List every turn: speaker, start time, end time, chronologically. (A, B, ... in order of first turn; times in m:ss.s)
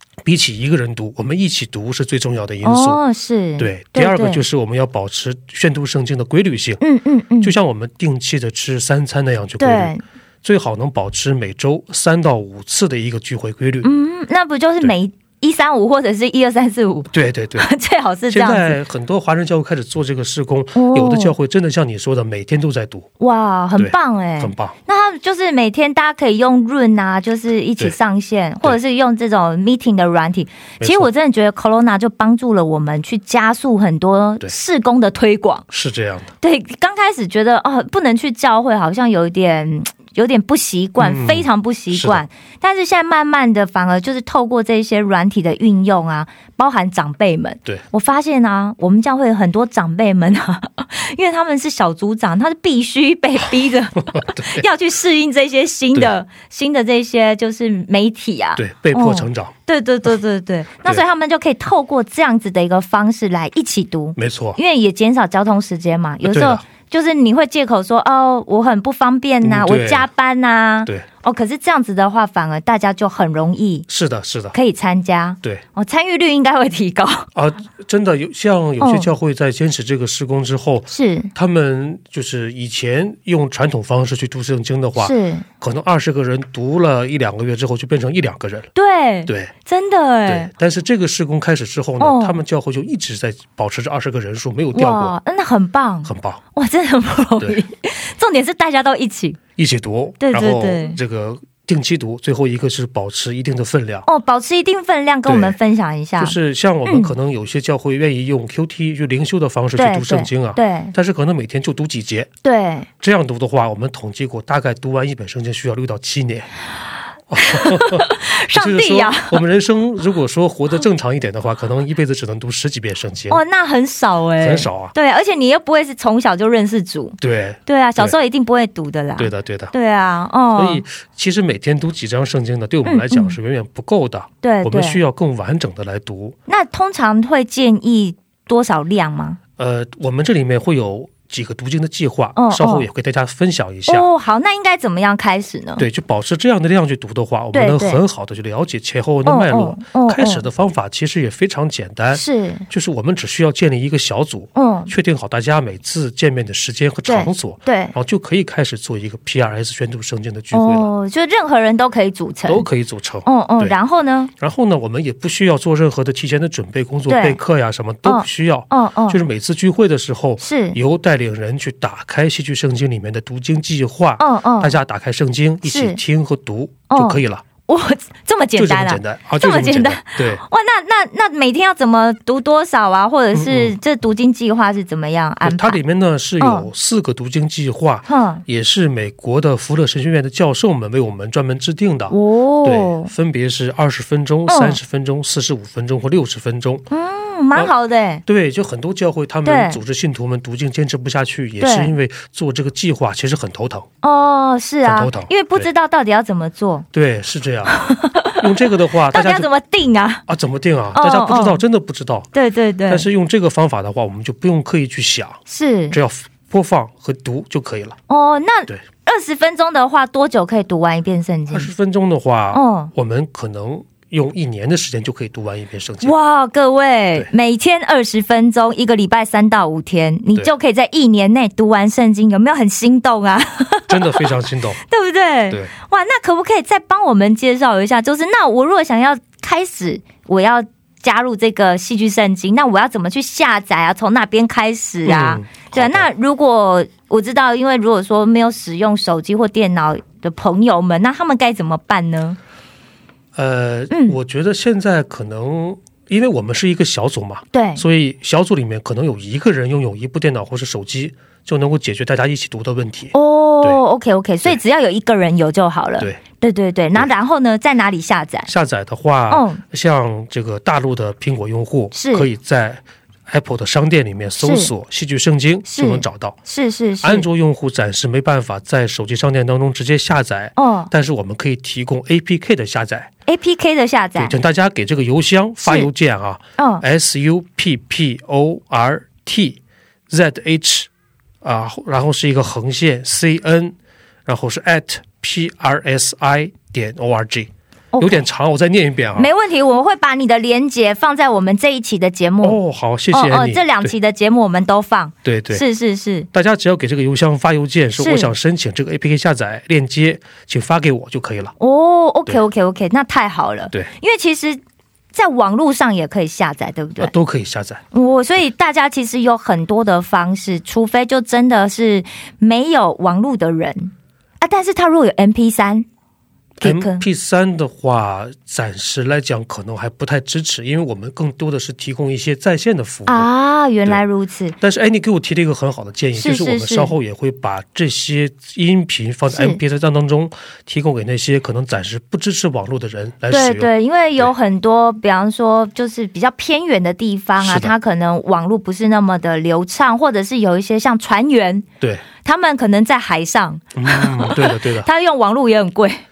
0:00.2-0:03.0 A
0:02.6-0:04.4 B
0:03.6-0:06.8 A
0:06.8-0:07.6 B
0:07.4-0:13.9 A
0:09.6-0:10.0 B
0:13.8-0:18.8 B
0:17.1-0:17.7 A
0:18.3-0:23.1 A
0:20.7-0:21.4 B
0:23.2-0:35.6 B
0:23.8-0:24.8 A
0:30.8-0:31.1 A
0:35.7-0:36.3 A
0:36.4-1:13.8 B
0:41.0-0:42.2 A
0:54.1-0:54.6 A
0:58.6-0:59.5 A
1:04.2-1:04.6 A
1:06.2-1:06.6 A
1:09.4-1:10.1 A
1:13.9-1:14.5 A
1:14.5-1:17.3 B
1:17.3-1:28.7 A
1:18.8-1:19.1 B
1:20.9-1:21.3 B
1:25.0-1:25.4 B
1:28.7-1:30.5 B
1:29.2-1:29.5 A
1:30.2-1:35.2 A
1:32.0-1:32.4 B
1:34.7-1:39.4 B
1:36.0-1:36.4 A
1:39.6-1:44.1 A
1:40.2-1:41.0 B
1:44.0-1:46.4 B
1:45.2-1:45.6 A
1:46.2-1:52.3 A
1:46.9-1:47.1 B
1:49.8-1:50.9 B
1:52.4-1:52.9 B
1:53.0-1:56.5 A
1:57.3-2:03.4 A
1:57.4-1:59.4 B
2:03.3-2:10.8 B
2:04.4-2:04.9 A
2:07.2-2:08.2 A
2:09.2-2:09.7 A
2:10.5-2:16.4 A
2:12.8-2:13.4 B
2:14.4-2:15.0 B
2:16.5-2:19.4 B
2:19.6-2:24.1 A
2:22.4-2:22.9 B
2:23.9-2:25.8 B
2:25.8-2:40.9 A
2:27.5-2:28.0 B
2:29.2-2:30.4 B
2:32.1-2:32.6 B
2:34.5-2:34.9 B
2:37.0-2:37.9 B
2:40.5-2:42.7 B
2:42.4-2:43.8 A
2:43.2-2:44.3 B
2:44.4-2:57.4 A
2:47.1-2:47.4 B
2:48.0-2:49.2 B
2:50.4-2:50.8 B
2:54.2-2:54.8 B
2:55.6-2:56.0 B
2:56.9-3:05.8 B
2:58.6-3:00.4 A
3:03.3-3:03.8 A
3:05.4-3:16.8 A
3:06.4-3:06.7 B
3:08.1-3:08.4 B
3:12.1-3:13.1 B
3:14.5-3:14.8 B
3:16.9-3:18.2 B
3:18.2-3:23.8 A
3:19.4-3:19.8 B
3:21.6-3:22.0 B
3:24.0-3:26.8 B
3:24.8-3:25.7 A
3:26.9-3:29.5 A
3:27.6-3:28.4 B
3:29.0-3:30.2 B
3:30.3-3:32.3 A
3:30.9-3:31.6 B
3:32.3-3:33.1 B
3:32.9-3:35.4 A
3:35.5-3:36.0 B
3:35.9-3:38.0 A
3:38.1-3:41.7 B
3:41.5-3:46.1 A
3:42.5-3:42.9 B
3:46.0-4:12.4 B
3:53.9-3:54.8 A
4:05.0-4:06.1 A
4:13.3-4:23.8 A
4:13.9-4:14.2 B
4:17.5-4:17.8 B
4:23.1-4:28.5 B
4:28.5-4:36.4 A
4:29.3-4:29.6 B
4:31.9-4:32.3 B
4:34.4-4:34.7 B
4:35.7-4:37.3 B
4:37.0-4:43.1 A
4:40.6-4:40.9 B
4:43.2-4:44.4 B
4:44.2-4:49.6 A
4:46.6-4:46.8 B
4:50.1-4:50.9 A
4:51.4-4:53.7 A
4:54.2-4:59.3 A
4:57.9-4:58.2 B
4:59.1-5:02.6 B
5:02.4-5:03.9 A
5:03.1-5:06.3 B
5:05.2-5:05.6 A
5:06.3-5:11.5 A
5:08.0-5:08.3 B
5:11.6-5:14.6 B
5:15.1-5:17.1 B
5:17.0-5:17.8 A
5:17.9-5:25.8 B
5:26.6-5:27.0 B
5:26.6-5:33.3 A
5:33.1-5:34.6 B
5:34.6-5:44.3 A
5:36.2-5:36.9 B
5:39.3-5:39.6 B
5:43.3-5:51.6 B
5:47.4-5:47.7 A
5:52.2-5:56.0 B
5:53.7-5:54.9 A